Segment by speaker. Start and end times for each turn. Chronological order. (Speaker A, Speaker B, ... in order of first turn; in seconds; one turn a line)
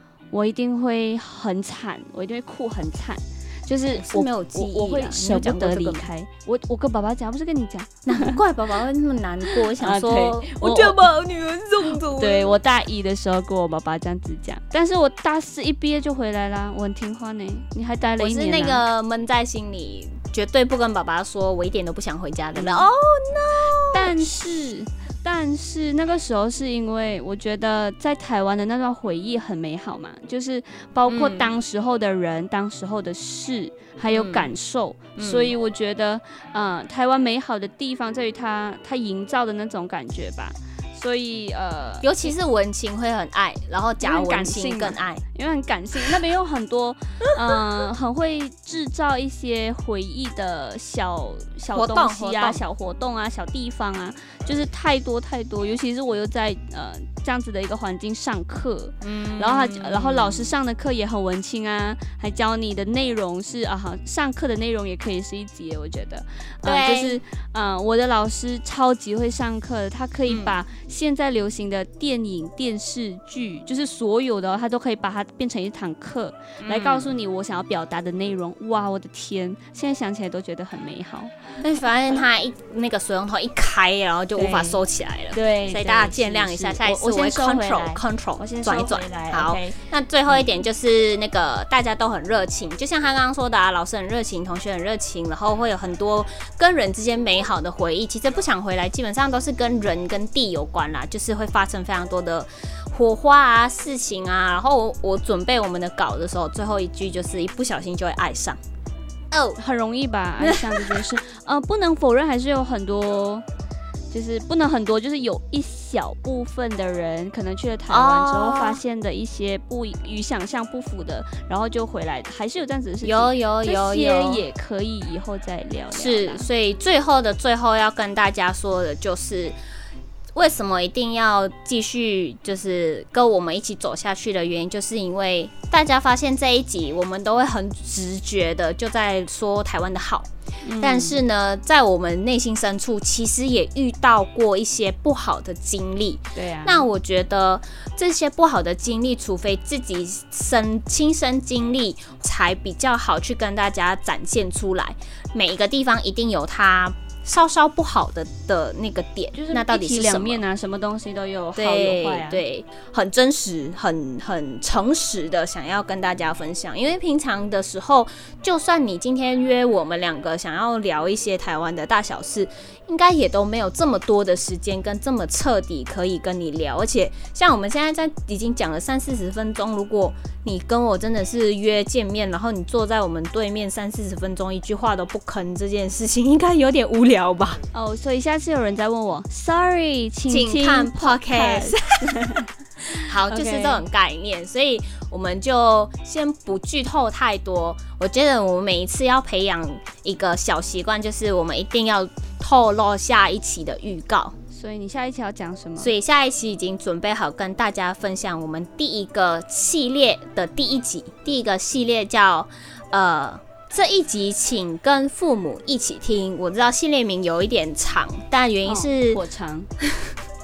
Speaker A: 0.3-8.4
Speaker B: 3.9-6.1
Speaker B: 8.1-12.6
Speaker A: 9.5-11.0
Speaker A: 12.1-18.8
Speaker B: 18.2-24.3
Speaker A: 22.5-22.9
Speaker A: 23.9-42.3
Speaker B: 31.1-31.5
Speaker B: 34.1-34.5
Speaker B: 35.2-35.5
Speaker B: 42.0-45.2
Speaker A: 44.0-81.6
Speaker B: 51.7-52.6
Speaker B: 59.0-60.5
Speaker B: 66.6-67.2
Speaker B: 70.3-70.5
Speaker B: 76.6-77.1
Speaker B: 81.6-108.6
Speaker A: 84.3-84.8
Speaker A: 85.3-90.5
Speaker B: 109.3-109.6
Speaker A: 109.6-113.5
Speaker B: 110.4-111.1
Speaker A: 114.1-126.5
Speaker B: 117.9-118.8
Speaker B: 123.0-124.4
Speaker B: 125.9-129.6
Speaker B: 130.3-140.3
Speaker A: 140.6-141.2
Speaker B: 140.8-160.4
Speaker A: 146.3-146.9
Speaker A: 159.3-162.4
Speaker B: 161.6-187.6
Speaker A: 187.7-193.8
Speaker B: 190.3-192.0
Speaker B: 193.0-204.3
Speaker A: 204.5-205.9
Speaker B: 205.8-219.2
Speaker A: 218.6-219.7
Speaker B: 219.8-220.1